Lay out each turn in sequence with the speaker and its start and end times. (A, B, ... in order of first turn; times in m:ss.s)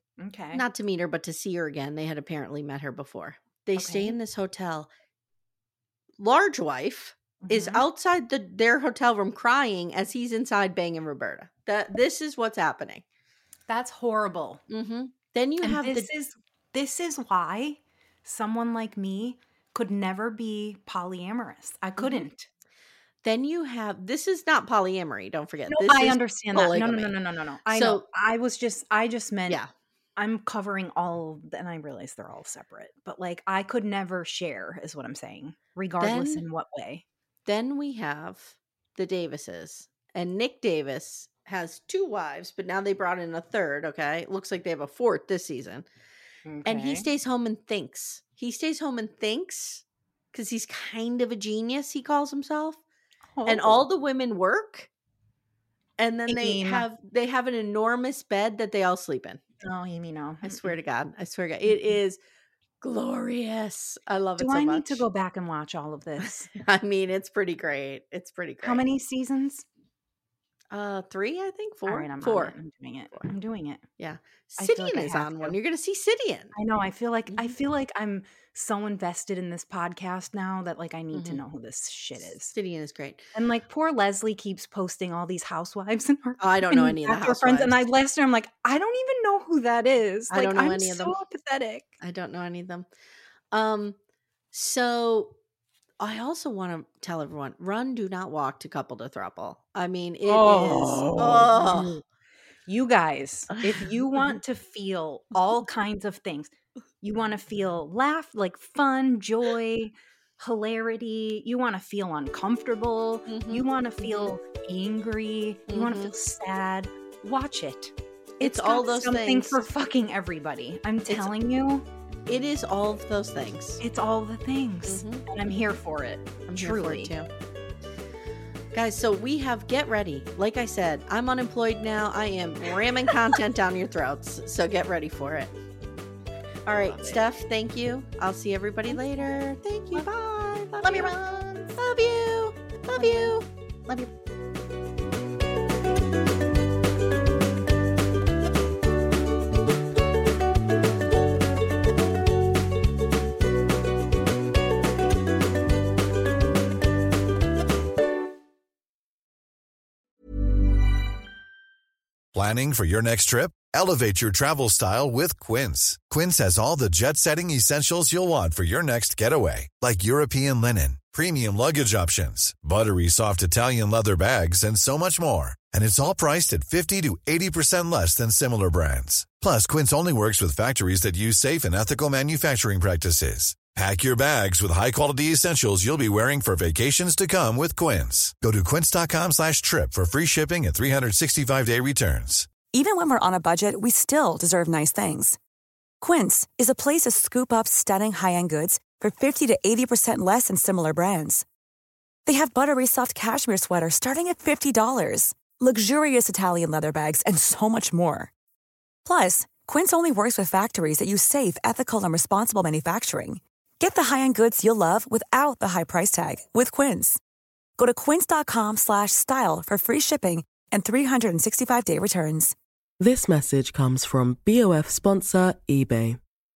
0:00.2-0:00.6 A
0:00.5-0:04.9 B
0:03.8-0:04.2 A
0:06.2-0:13.0 B
0:07.4-0:07.8 A
0:13.7-0:14.6 A
0:14.7-0:16.1 B
0:15.6-0:22.5 A
0:22.0-0:22.3 B
0:23.2-0:28.0 B
0:25.7-0:29.6 A
0:30.2-0:37.0 A
0:36.0-0:36.4 B
0:37.4-0:45.9 B
0:46.4-0:47.1 A
0:46.6-0:52.8 B
0:53.3-0:53.8 A
0:53.4-0:54.9 B
0:56.0-0:59.4 B
0:56.3-0:56.9 A
0:59.6-1:00.8 A
1:00.4-1:02.2 B
1:01.6-1:02.0 A
1:02.8-1:05.0 B
1:04.4-1:06.5 A
1:06.2-1:08.8 B
1:08.6-1:09.6 A
1:10.7-1:12.6 B
1:11.9-1:13.8 A
1:14.0-1:16.5 B
1:14.6-1:15.6 A
1:16.5-1:22.5 A
1:17.3-1:17.5 B
1:21.1-1:21.4 B
1:22.2-1:23.3 B
1:23.3-1:31.9 A
1:26.4-1:27.8 B
1:30.3-1:31.2 B
1:32.0-1:32.9 B
1:33.5-1:34.0 B
1:34.5-1:35.3 B
1:36.0-1:42.0 B
1:40.2-1:42.0 A
1:42.6-2:01.8 A
1:43.6-1:44.4 B
1:53.3-1:54.3 B
1:55.7-1:56.1 B
1:58.4-1:59.6 B
2:01.1-2:01.3 B
2:02.3-2:03.8 B
2:03.8-2:07.1 A
2:04.8-2:05.3 B
2:06.5-2:07.3 B
2:08.7-2:15.5 B
2:16.6-2:23.5 B
2:16.7-2:17.2 A
2:18.9-2:19.4 A
2:20.8-2:21.8 A
2:22.9-2:23.3 A
2:42.3-3:12.6 C
3:12.7-3:15.4 D
3:16.0-3:21.4 D
3:22.2-3:28.3 D
3:29.0-3:37.2 D
3:37.8-3:42.5 D
3:43.0-3:46.2 E